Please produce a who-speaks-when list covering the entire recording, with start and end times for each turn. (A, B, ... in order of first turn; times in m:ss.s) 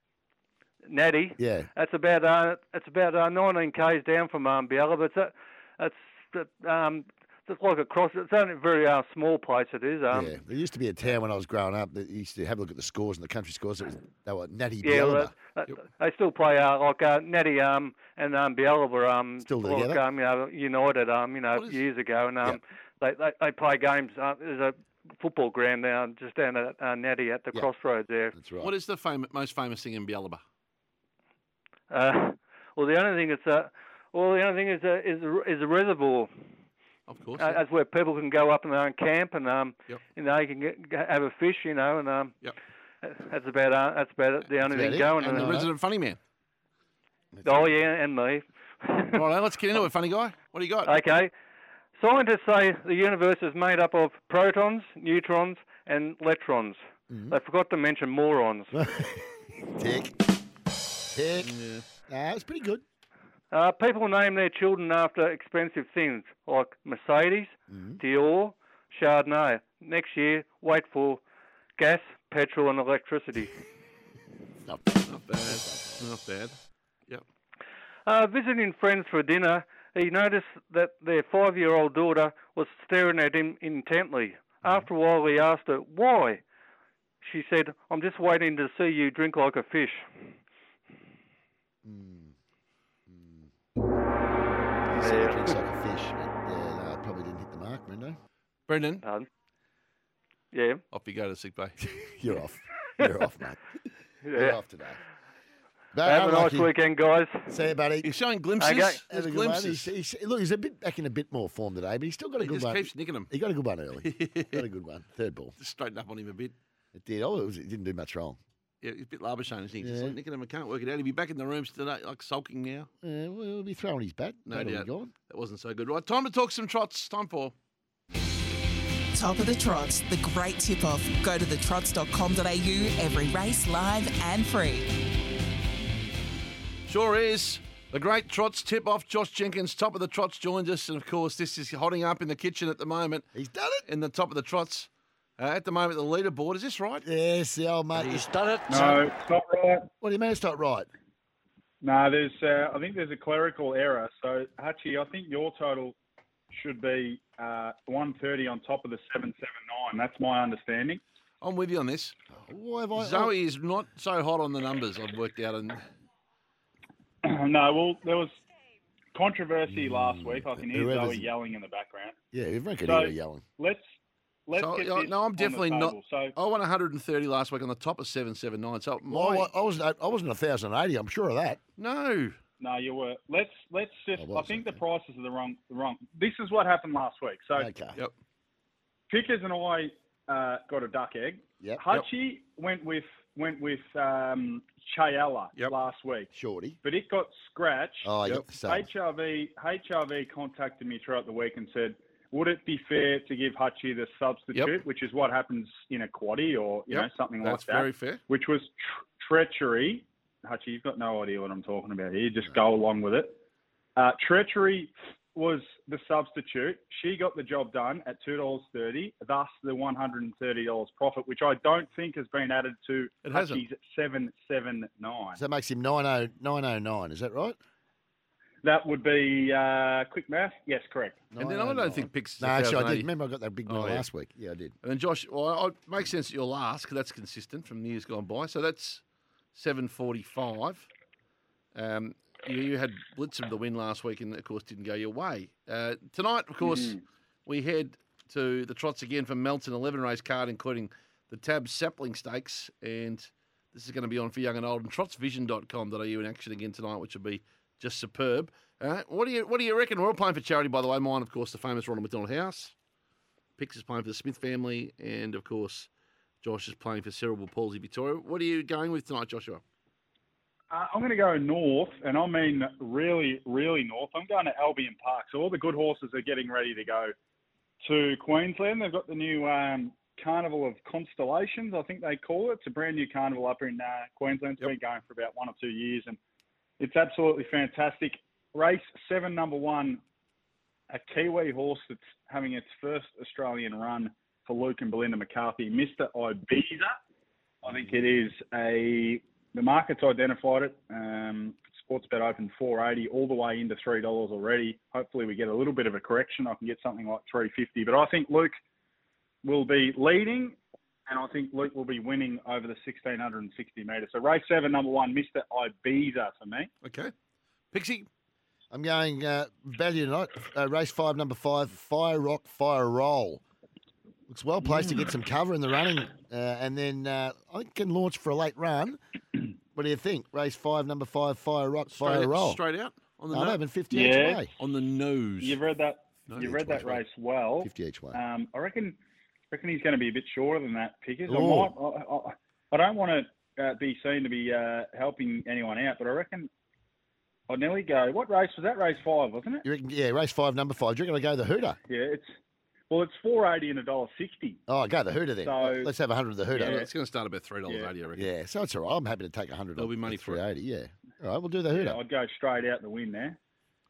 0:00.8-0:10.4 A
0:01.4-0:01.7 B
0:10.1-0:15.3 B
0:14.8-0:28.3 A
0:19.4-0:20.0 B
0:21.5-0:21.8 C
0:28.3-0:28.7 B
0:28.6-0:30.4 C
0:31.9-0:36.3 A
0:37.1-0:37.6 C
0:37.4-0:42.3 A
0:43.0-0:45.6 A
0:44.7-0:45.7 B
0:45.2-0:46.2 C
0:47.3-0:47.7 B
0:47.4-0:49.2 A
0:49.2-0:51.0 C
0:50.8-0:51.3 A
0:52.0-0:58.7 A
0:57.1-0:57.4 B
0:58.7-1:00.2 B
1:01.1-1:01.5 B
1:01.4-1:01.8 C
1:02.1-1:02.8 B
1:03.5-1:11.2 A
1:07.7-1:08.0 B
1:11.8-1:13.5 A
1:14.6-1:16.1 B
1:15.0-1:16.6 C
1:18.0-1:26.4 A
1:27.2-1:30.1 A
1:31.8-1:32.3 B
1:33.1-1:33.5 B
1:34.9-1:35.6 A
1:34.9-1:38.2 B
1:38.7-1:39.0 C
1:40.5-1:40.8 A
1:40.9-1:41.8 C
1:41.8-1:43.6 B
1:44.2-1:44.6 A
1:44.4-1:45.0 B
1:45.9-1:46.7 B
1:46.0-1:47.5 A
1:47.5-1:48.1 B
1:48.0-1:49.9 C
1:48.6-1:49.0 A
1:49.1-1:55.5 B
1:52.4-1:53.3 C
1:54.0-1:54.6 C
1:55.6-1:56.5 C
1:56.9-1:58.4 B
1:58.8-2:02.9 C
1:59.8-2:00.2 B
2:03.0-2:05.1 B
2:04.5-2:07.5 C
2:09.1-2:14.9 D
2:16.9-2:23.2 C
2:23.3-2:23.8 B
2:23.8-2:27.0 C
2:27.0-2:28.3 B
2:28.7-2:29.9 E
2:30.0-2:30.9 B
2:31.8-2:35.9 E
2:36.5-2:41.0 E
2:41.4-2:42.2 C
2:42.3-2:43.3 B
2:43.0-2:45.8 C
2:47.2-2:48.3 E
2:49.1-2:52.1 E
2:49.7-2:51.3 B
2:52.3-2:53.4 B
2:52.8-2:53.8 E
2:54.5-2:56.3 E
2:54.6-2:59.5 C
2:59.1-3:01.6 B
3:01.8-3:02.4 C
3:02.6-3:07.7 E
3:04.1-3:04.8 B
3:07.5-3:08.0 B
3:09.1-3:16.3 E
3:16.3-3:16.8 B
3:16.8-3:33.3 E
3:18.0-3:18.9 B
3:24.5-3:24.8 C
3:26.9-3:28.2 C
3:34.0-3:45.4 E
3:43.2-3:43.6 C
3:45.4-3:47.6 B
3:48.6-3:51.2 E
3:51.3-3:54.7 B
3:51.4-3:53.1 C
3:53.7-3:54.0 C
3:54.8-3:59.0 C
3:59.5-4:00.9 C
4:01.7-4:22.7 C
4:06.6-4:07.0 E
4:23.6-4:25.9 C
4:26.4-4:29.6 C
4:30.7-4:37.1 E
4:37.8-4:46.2 E
4:46.8-4:50.0 E
4:50.9-4:56.9 E
4:57.6-5:08.6 E
5:09.4-5:16.7 E
5:16.8-5:17.1 C
5:17.7-5:18.1 C
5:18.7-5:23.4 B
5:24.3-5:29.0 B
5:24.6-5:25.1 E
5:29.7-5:32.6 B
5:31.9-5:33.6 C
5:33.3-5:34.5 B
5:33.9-5:34.4 E
5:34.6-5:35.6 C
5:35.4-5:39.0 E
5:36.3-5:37.0 C
5:36.4-5:37.0 B
5:37.6-5:38.2 B
5:39.5-5:46.5 E
5:41.3-5:41.7 B
5:47.5-5:49.6 E
5:49.6-5:51.8 B
5:51.9-5:52.3 E
5:52.9-5:54.6 E
5:54.7-5:56.8 B
5:55.4-5:55.9 E
5:56.5-5:58.3 C
5:56.5-5:56.9 E
5:58.1-6:02.0 B
5:59.8-6:00.4 C
6:01.7-6:03.4 E